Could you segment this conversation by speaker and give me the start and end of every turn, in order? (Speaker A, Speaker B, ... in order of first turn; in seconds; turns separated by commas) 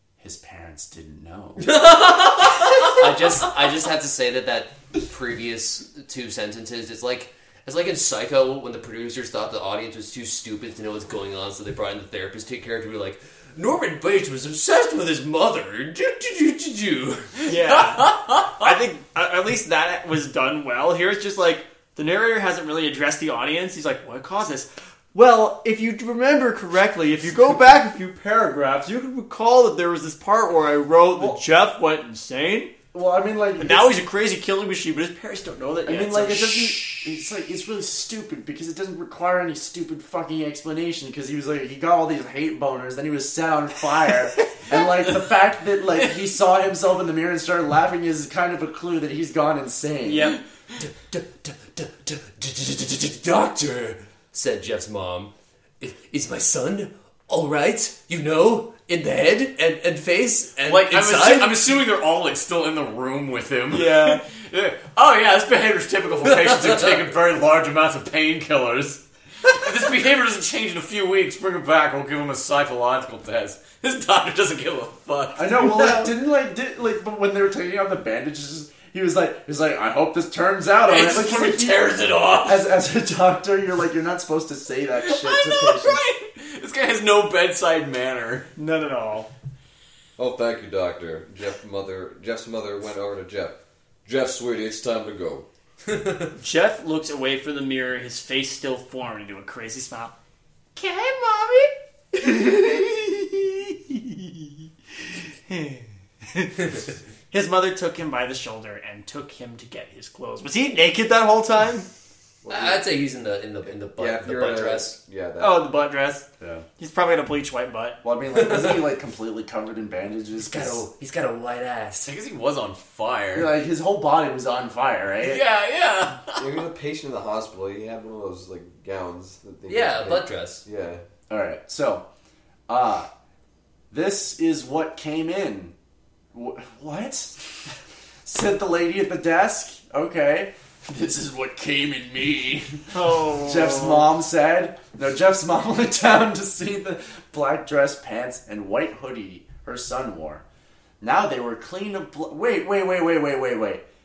Speaker A: 0.2-1.8, Speaker B: 1.6-3.0, Speaker C: 2.9-17.5, Speaker D: 17.4-32.7, Speaker B: 17.7-18.7, Speaker A: 32.9-33.9, Speaker D: 33.6-37.2, Speaker A: 35.9-50.3, Speaker D: 50.0-50.4, Speaker C: 50.8-61.7, Speaker B: 60.6-75.7, Speaker D: 63.7-64.2, Speaker C: 66.3-67.0, Speaker A: 75.4-86.0, Speaker D: 75.6-76.1, Speaker B: 80.9-82.7, Speaker B: 85.0-88.5, Speaker D: 88.6-89.3, Speaker E: 90.2-96.3, Speaker D: 96.4-100.1, Speaker D: 100.8-104.5, Speaker D: 105.5-111.9, Speaker E: 112.4-112.8, Speaker C: 112.5-114.9, Speaker E: 113.7-115.7, Speaker D: 115.4-116.3, Speaker D: 116.8-118.0, Speaker A: 118.0-120.8, Speaker C: 120.4-122.1, Speaker B: 122.1-123.5, Speaker A: 123.3-125.4, Speaker B: 125.2-126.5, Speaker E: 126.4-131.0, Speaker C: 129.7-130.6, Speaker A: 131.3-132.0, Speaker A: 132.7-133.1, Speaker A: 133.9-135.7, Speaker A: 136.3-137.4, Speaker A: 138.2-150.4, Speaker D: 142.9-144.1, Speaker A: 151.0-153.8